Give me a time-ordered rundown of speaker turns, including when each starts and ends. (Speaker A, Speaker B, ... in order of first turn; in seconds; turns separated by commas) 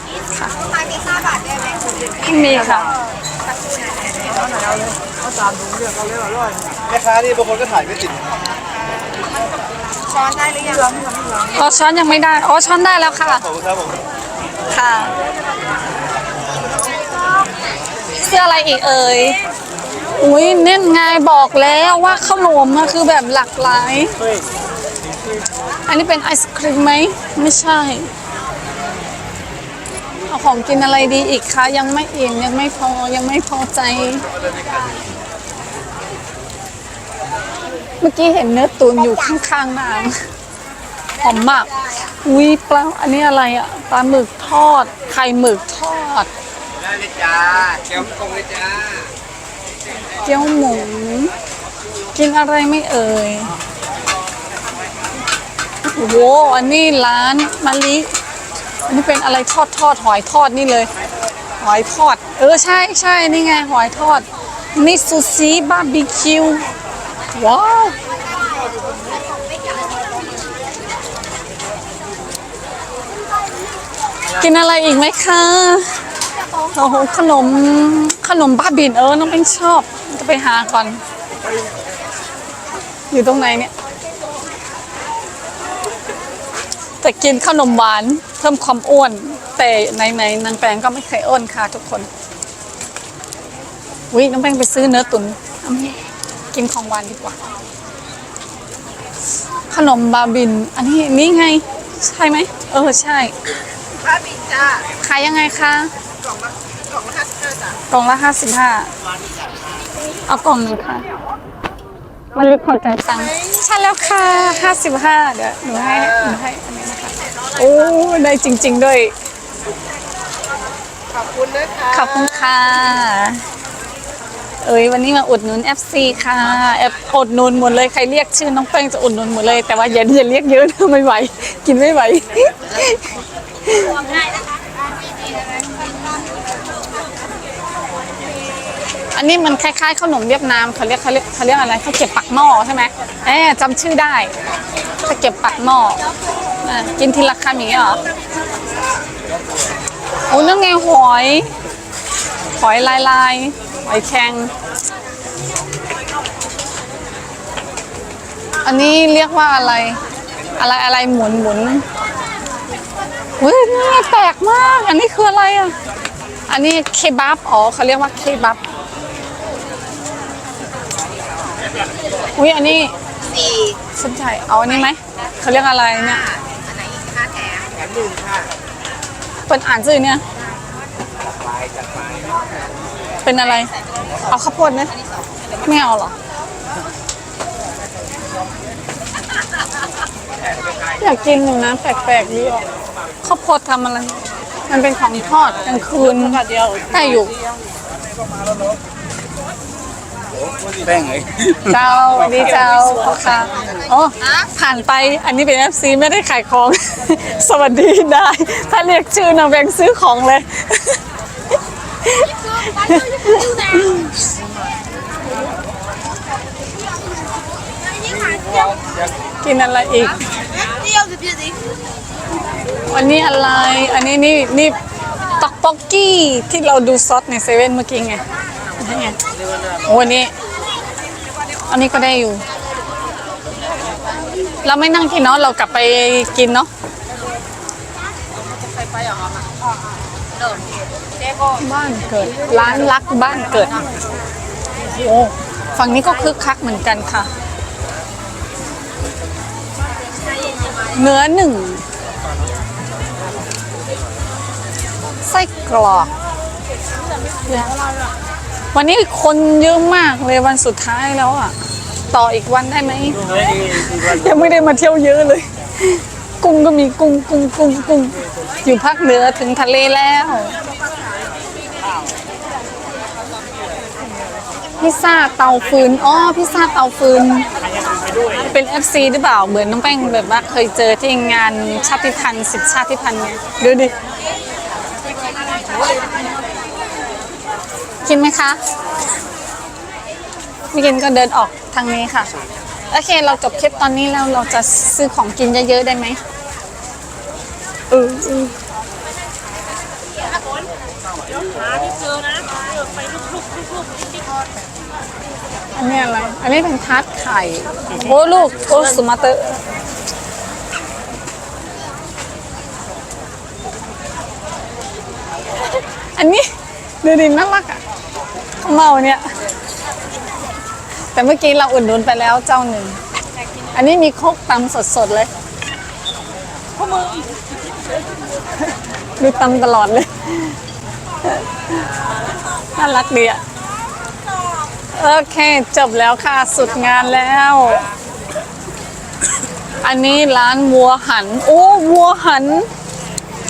Speaker A: 0.7-2.1, Speaker B: 2.2-2.9, Speaker A: 3.5-4.8, Speaker C: 7.0-7.8, Speaker A: 7.7-8.9, Speaker A: 10.1-11.0, Speaker B: 11.5-13.5, Speaker B: 14.7-15.1, Speaker B: 18.2-19.4, Speaker B: 20.2-24.1, Speaker B: 25.9-28.1, Speaker B: 30.3-34.2, Speaker B: 38.0-40.2, Speaker B: 41.2-46.3, Speaker C: 47.2-48.8, Speaker B: 50.2-51.3, Speaker B: 52.1-53.5, Speaker B: 55.9-58.1, Speaker B: 58.9-60.9, Speaker B: 61.6-66.7, Speaker B: 67.4-68.0, Speaker A: 68.3-70.5, Speaker B: 74.3-76.0, Speaker B: 76.5-81.0, Speaker B: 83.1-83.7, Speaker B: 87.0-92.1, Speaker B: 94.1-97.4, Speaker B: 99.7-103.4, Speaker A: 104.2-104.8, Speaker B: 104.9-105.9, Speaker A: 106.9-107.5, Speaker B: 107.9-108.9, Speaker B: 110.3-111.1, Speaker B: 112.3-119.1, Speaker A: 121.4-121.8, Speaker B: 121.8-123.4, Speaker B: 124.6-133.1, Speaker B: 133.7-134.0, Speaker B: 139.2-144.3, Speaker B: 145.0-146.1, Speaker B: 146.6-148.0, Speaker B: 150.3-151.5, Speaker B: 152.6-154.5, Speaker B: 158.6-160.0, Speaker B: 160.6-161.8, Speaker B: 163.4-165.8, Speaker B: 166.5-168.6, Speaker B: 172.4-172.9, Speaker A: 173.3-173.8, Speaker B: 173.9-176.3, Speaker A: 176.4-178.0, Speaker B: 179.5-180.2, Speaker B: 183.2-184.9, Speaker B: 185.6-186.2, Speaker B: 191.0-192.7, Speaker B: 193.2-197.3, Speaker B: 201.6-211.0, Speaker B: 212.0-214.1, Speaker A: 218.1-218.5, Speaker B: 219.4-220.2, Speaker A: 220.8-221.5, Speaker B: 222.9-224.8, Speaker B: 225.4-228.2, Speaker B: 228.8-229.2, Speaker B: 229.8-230.3, Speaker B: 231.7-232.4, Speaker B: 234.6-236.7, Speaker B: 241.5-243.9, Speaker B: 244.8-247.3, Speaker B: 250.9-251.8, Speaker B: 255.2-256.1, Speaker B: 257.5-257.8, Speaker B: 258.7-261.6, Speaker B: 262.1-270.6, Speaker B: 274.8-277.5, Speaker B: 278.4-283.9, Speaker B: 288.1-288.6, Speaker B: 290.7-292.3, Speaker B: 292.9-296.2, Speaker B: 297.9-298.5, Speaker B: 305.8-309.6, Speaker B: 316.1-316.5, Speaker B: 317.0-317.8, Speaker B: 318.6-319.3, Speaker B: 321.1-323.0, Speaker B: 323.7-325.3, Speaker B: 329.2-330.6, Speaker B: 331.2-331.9, Speaker B: 332.8-333.4, Speaker B: 335.0-337.9, Speaker B: 339.8-342.7